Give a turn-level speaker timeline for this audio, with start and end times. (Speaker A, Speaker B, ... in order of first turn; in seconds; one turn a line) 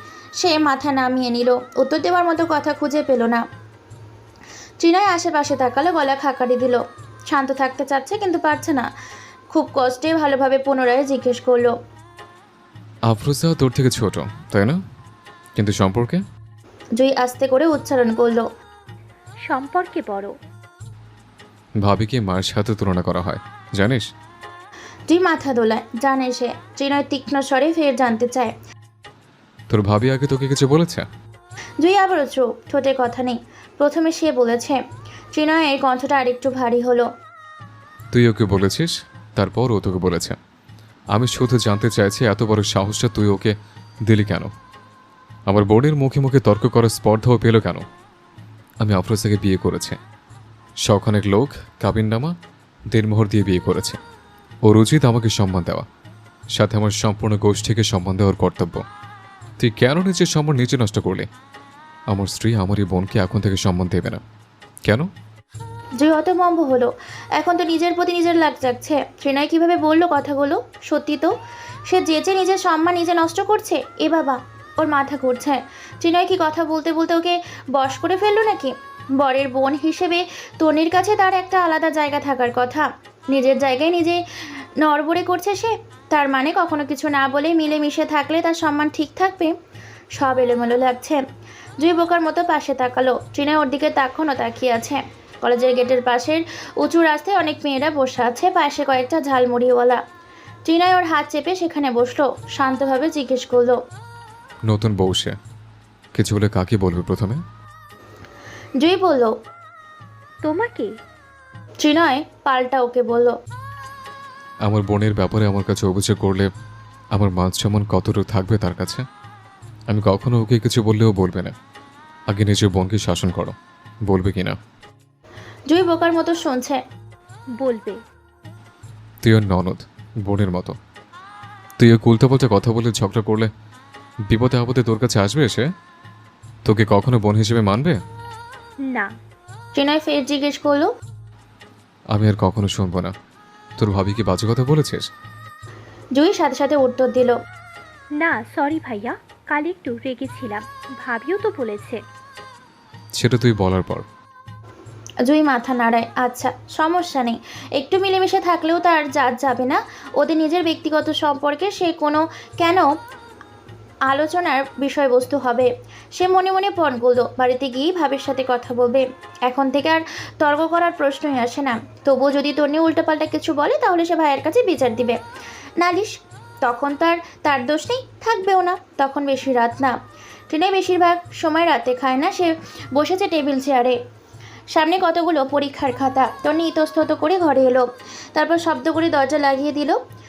Speaker A: 0.4-3.4
Speaker A: 4.8-8.9
Speaker A: 9.5-11.7
Speaker B: 13.1-14.8
Speaker B: 15.6-16.2
Speaker A: 17.0-18.4
Speaker C: 19.5-20.3
Speaker B: 21.8-24.0
Speaker A: 25.1-28.5
Speaker B: 29.7-31.0
Speaker A: 31.8-34.8
Speaker A: 35.3-37.1
Speaker B: 38.1-40.4
Speaker B: 41.1-43.5
Speaker B: 44.1-44.5
Speaker B: 45.5-47.8
Speaker B: 48.8-50.0
Speaker B: 50.8-52.3
Speaker B: 52.9-54.0
Speaker B: 54.6-55.9
Speaker B: 56.5-58.8
Speaker B: 59.6-61.3
Speaker B: 62.1-64.2
Speaker A: 66.0-71.3
Speaker A: 71.9-84.2
Speaker A: 84.8-89.5
Speaker A: 90.2-91.2
Speaker A: 91.8-100.0
Speaker A: 100.7-103.8
Speaker B: 104.7-105.3
Speaker B: 106.1-107.4
Speaker A: 108.8-109.3
Speaker C: 110.4-110.9
Speaker A: 111.8-113.3
Speaker B: 114.7-116.5
Speaker B: 117.1-119.0
Speaker B: 119.9-121.5
Speaker B: 122.3-123.5
Speaker B: 124.1-124.5
Speaker A: 125.7-126.8
Speaker C: 127.6-128.0
Speaker B: 129.2-130.7
Speaker B: 131.8-133.5
Speaker B: 134.3-135.7
Speaker B: 136.7-138.0
Speaker A: 139.7-140.9
Speaker B: 142.1-143.1
Speaker B: 143.8-145.1
Speaker A: 146.2-147.3
Speaker C: 148.2-152.0
Speaker B: 153.2-154.0
Speaker A: 155.3-162.8
Speaker A: 164.1-175.2
Speaker A: 175.8-179.9
Speaker A: 180.5-183.9
Speaker A: 184.7-190.0